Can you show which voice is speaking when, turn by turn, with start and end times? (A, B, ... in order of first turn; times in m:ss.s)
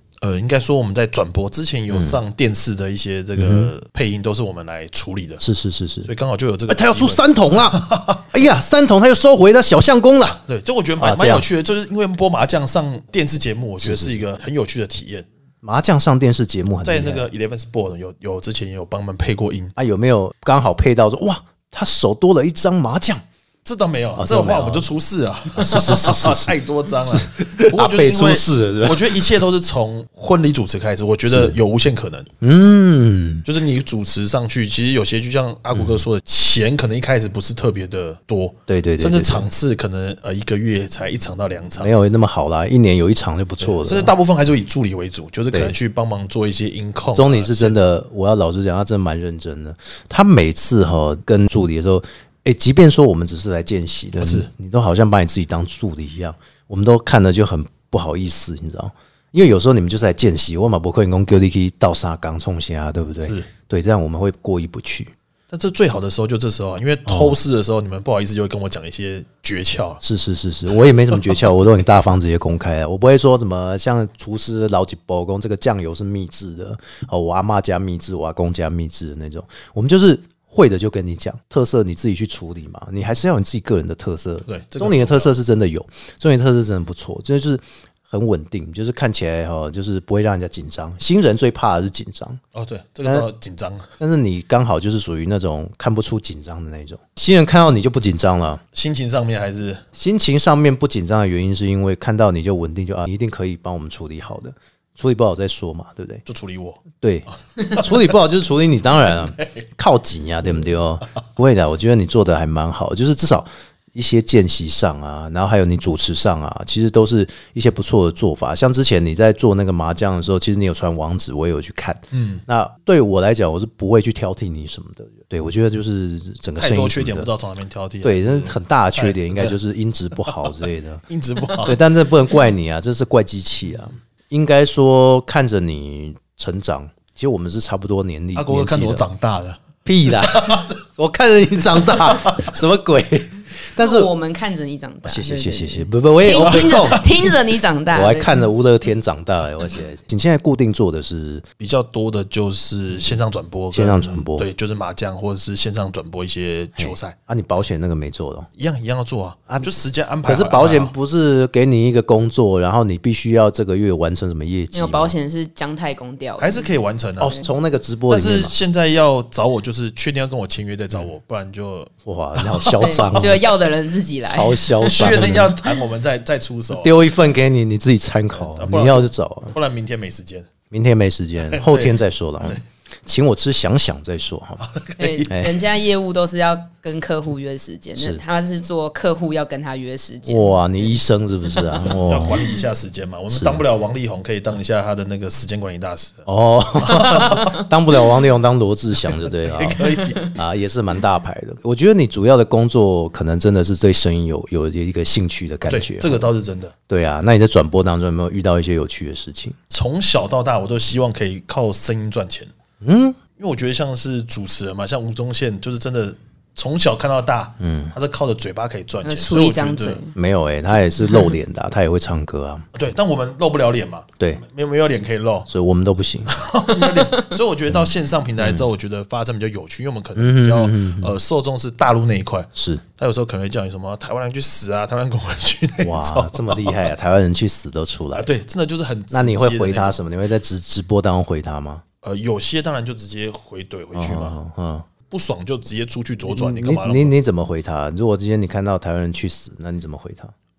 0:00.2-0:05.4 A
0:01.9-0:02.2 B
0:03.4-0:03.7 B
0:05.4-0:06.1 B
0:06.0-0:08.2 A
0:06.7-0:10.4 B
0:10.5-0:15.2 A
0:11.0-0:11.4 B
0:13.8-0:14.2 B
0:15.6-0:17.3 B
0:16.8-0:19.7 A
0:19.8-0:23.2 B
0:23.6-0:32.3 A
0:24.2-0:24.9 B
0:25.5-0:26.5 B
0:27.1-0:29.2 B
0:31.3-0:31.5 B
0:32.4-0:33.4 B
0:33.4-0:41.9 A
0:35.7-0:36.0 B
0:38.7-0:39.5 B
0:41.8-0:44.1 B
0:43.6-0:47.9 A
0:47.1-1:05.1 B
0:54.2-0:54.5 A
1:05.5-1:10.0 A
1:07.1-1:07.4 B
1:10.0-1:32.4 B
1:24.5-1:25.3 A
1:32.5-1:33.9 A
1:34.0-1:38.6 B
1:38.7-1:39.8 A
1:39.9-1:46.2 B
1:46.2-1:46.8 A
1:47.0-2:07.3 B
1:47.6-1:48.1 A
1:49.2-1:49.6 A
2:02.1-2:02.4 A
2:06.6-2:09.5 A
2:08.0-2:11.0 B
2:10.2-2:10.5 A
2:11.1-2:11.8 A
2:11.6-2:19.1 B
2:18.4-2:20.7 A
2:19.8-2:24.1 B
2:21.9-2:22.5 A
2:23.8-2:28.4 C
2:25.0-2:27.1 B
2:26.4-2:27.1 A
2:27.9-2:31.4 B
2:31.6-2:37.1 A
2:33.7-2:34.5 B
2:36.8-2:38.5 B
2:38.6-2:40.9 A
2:40.2-2:45.1 B
2:44.7-2:46.7 C
2:46.4-2:47.4 A
2:47.2-2:48.5 B
2:48.1-2:53.3 A
2:52.0-2:53.4 B
2:52.8-2:55.3 C
2:54.2-2:55.5 B
2:54.8-2:57.0 A
2:56.7-2:59.5 B
2:58.3-3:00.5 A
3:00.7-3:04.7 B
3:01.5-3:02.6 A
3:04.6-3:05.3 A
3:05.0-3:10.6 C
3:05.3-3:05.5 B
3:08.0-3:08.2 B
3:10.3-3:12.4 B
3:11.9-3:16.2 A
3:13.3-3:13.6 B
3:16.2-3:19.8 B
3:16.8-3:17.5 A
3:19.1-3:20.3 A
3:20.3-3:26.3 B
3:25.7-3:26.7 A
3:26.9-3:29.6 B
3:29.7-3:32.5 A
3:32.8-3:33.2 B
3:33.4-3:40.0 A
3:37.6-3:37.9 B
3:39.0-3:40.1 C
3:40.1-3:42.6 B
3:42.7-3:45.5 A
3:45.5-3:46.3 B
3:46.3-3:56.9 A
3:46.7-3:47.3 C
3:48.4-3:48.7 B
3:50.2-3:51.1 B
3:52.5-3:52.8 B
3:55.8-3:58.3 B
3:58.1-4:00.0 A
3:59.1-4:01.8 B
4:02.0-4:04.4 A
4:03.9-4:04.8 B
4:05.1-4:07.1 A
4:06.3-4:10.3 B